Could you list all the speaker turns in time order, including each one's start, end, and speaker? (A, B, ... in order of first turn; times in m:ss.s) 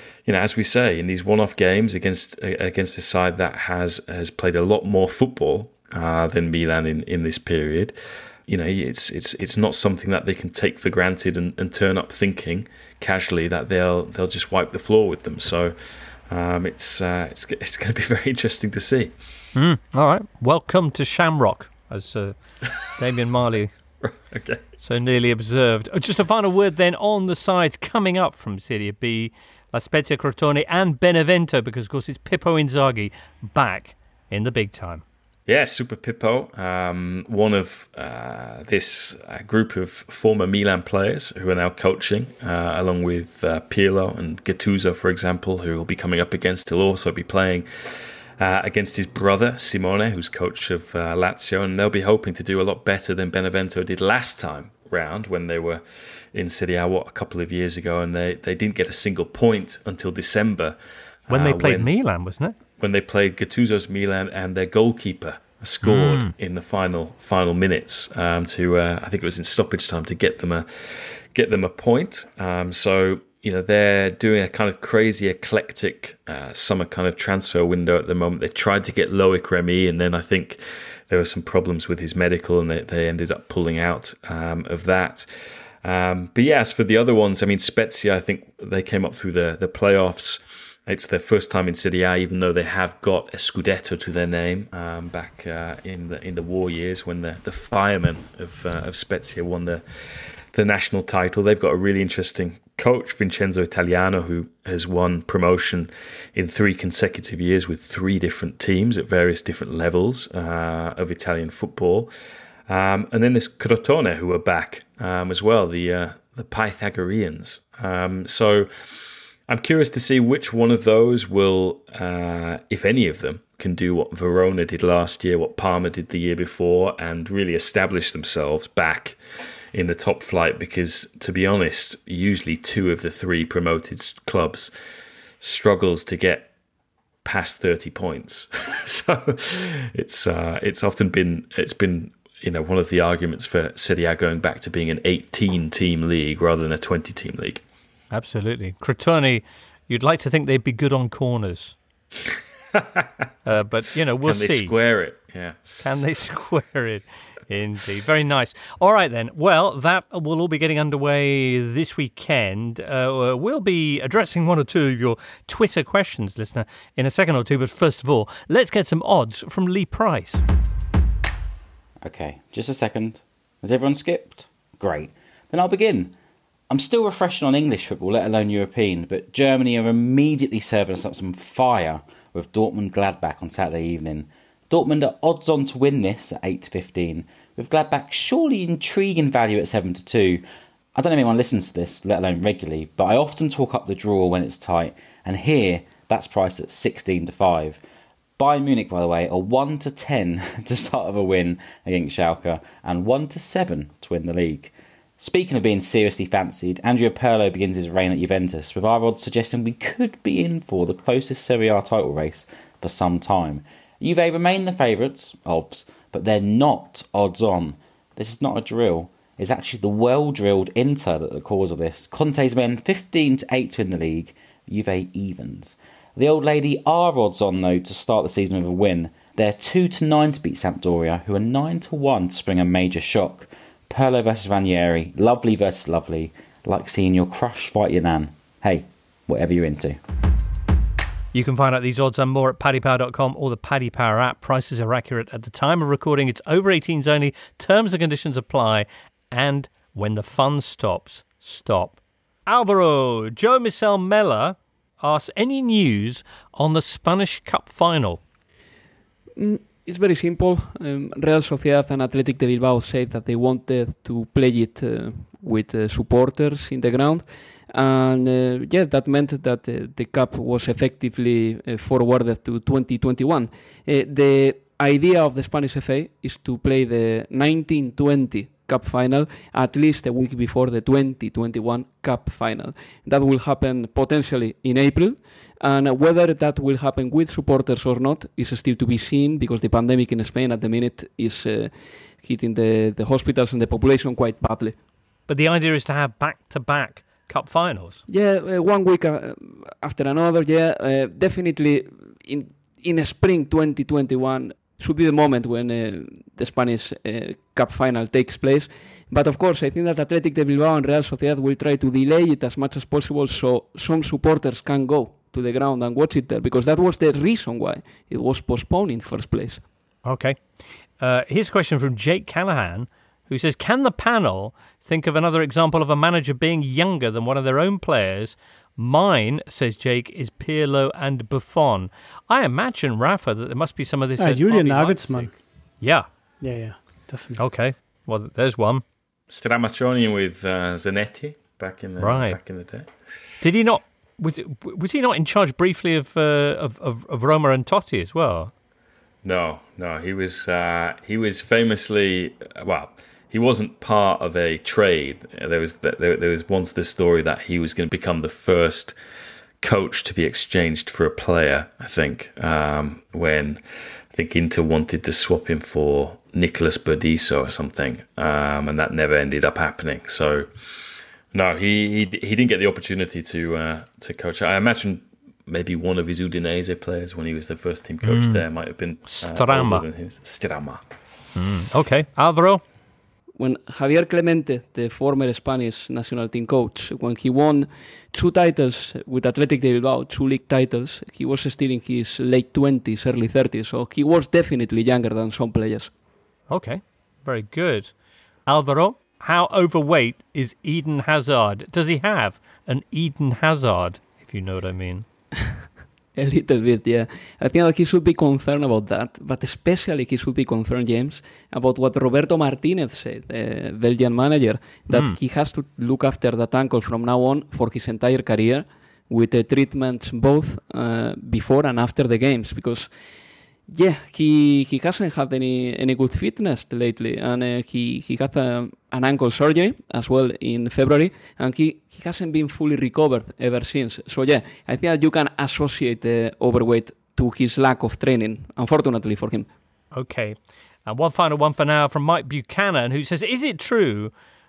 0:00.3-0:08.0 A
0:08.5-0:15.8 A
0:16.3-0:19.1 A
0:19.6-0:22.4 B
0:22.9-0:23.7 B
0:24.0-0:24.6 A
0:24.8-0:35.0 B
0:35.5-0:47.7 A
0:48.4-0:55.8 A
0:56.3-1:00.8 A
1:01.3-1:01.9 A
1:01.3-1:02.6 B
1:02.8-1:25.3 A
1:05.8-1:06.3 B
1:25.8-1:52.1 A
1:52.7-1:58.7 A
1:59.5-2:09.2 A
2:09.7-2:14.7 A
2:15.4-2:16.5 A
2:17.2-2:27.6 A
2:28.1-2:31.8 B
2:32.8-2:33.0 A
2:33.5-2:34.7 B
2:34.2-2:35.7 A
2:35.8-2:50.4 B
2:52.0-2:56.2 C
2:56.7-3:10.4 C
3:11.0-3:17.8 C
3:18.4-4:00.0 C
4:01.3-4:18.2 B
4:19.4-4:54.8 D
4:55.3-4:58.0 B
4:58.1-5:19.6 D
5:20.0-5:36.1 B
5:34.2-5:35.4 E
5:36.4-5:37.4 E
5:37.4-5:38.8 B
5:39.3-5:42.9 A
5:42.0-5:42.4 B
5:43.4-5:48.5 B
5:49.2-5:59.0 A
5:59.6-6:03.6 A
6:04.1-6:10.5 A
6:11.3-6:20.8 A
6:18.0-6:18.4 B
6:19.1-6:19.8 B
6:21.4-6:22.6 B
6:23.4-6:35.9 D
6:36.5-6:37.9 B
6:38.5-6:45.1 B
6:46.2-7:02.9 D
6:54.9-6:55.2 B
7:03.7-7:19.5 D
7:19.9-7:24.1 B